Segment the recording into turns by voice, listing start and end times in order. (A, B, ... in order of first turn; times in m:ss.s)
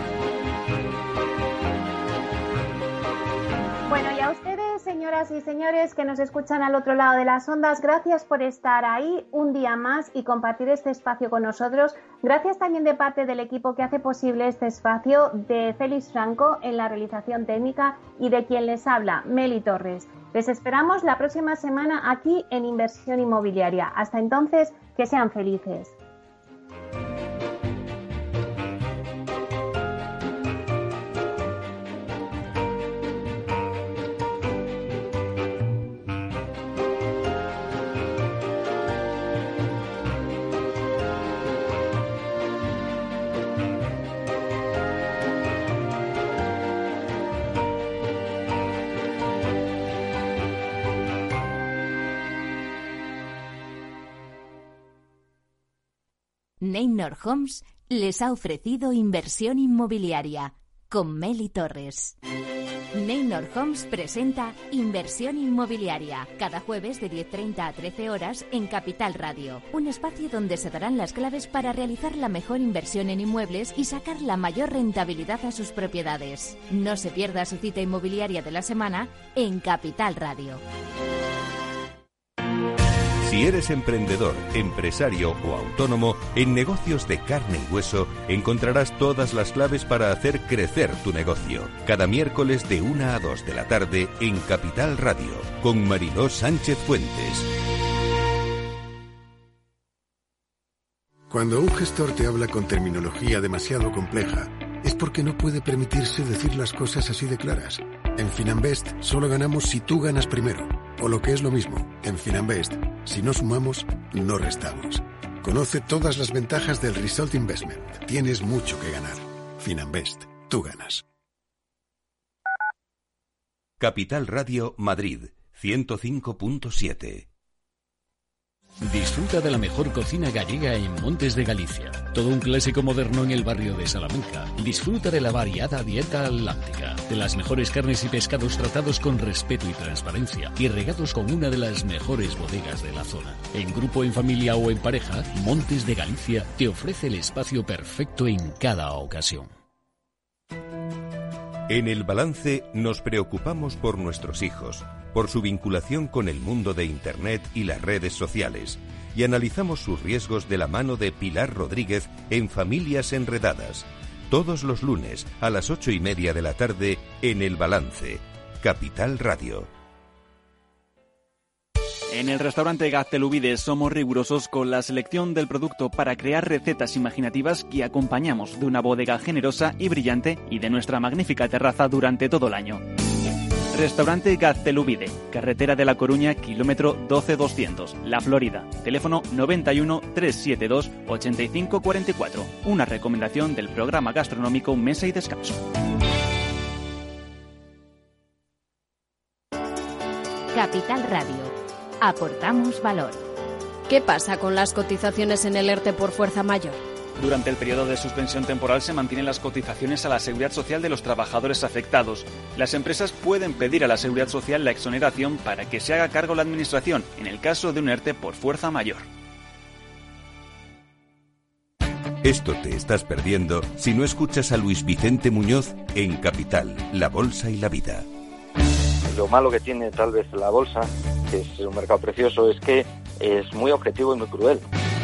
0:03.9-0:26.0 A
0:56.6-1:02.2 B
1:02.9-1:20.6 B
1:23.2-1:37.5 C
1:41.3-2:01.0 D
2:03.8-2:07.3 C
2:08.8-2:29.5 E
2:31.7-2:49.7 C
2:52.1-3:02.8 F
3:03.7-3:15.6 F
3:20.5-3:21.5 B
3:22.0-3:23.2 B
3:23.9-3:26.8 G
3:27.2-3:39.1 F
3:42.2-3:48.1 C
3:49.1-3:54.6 H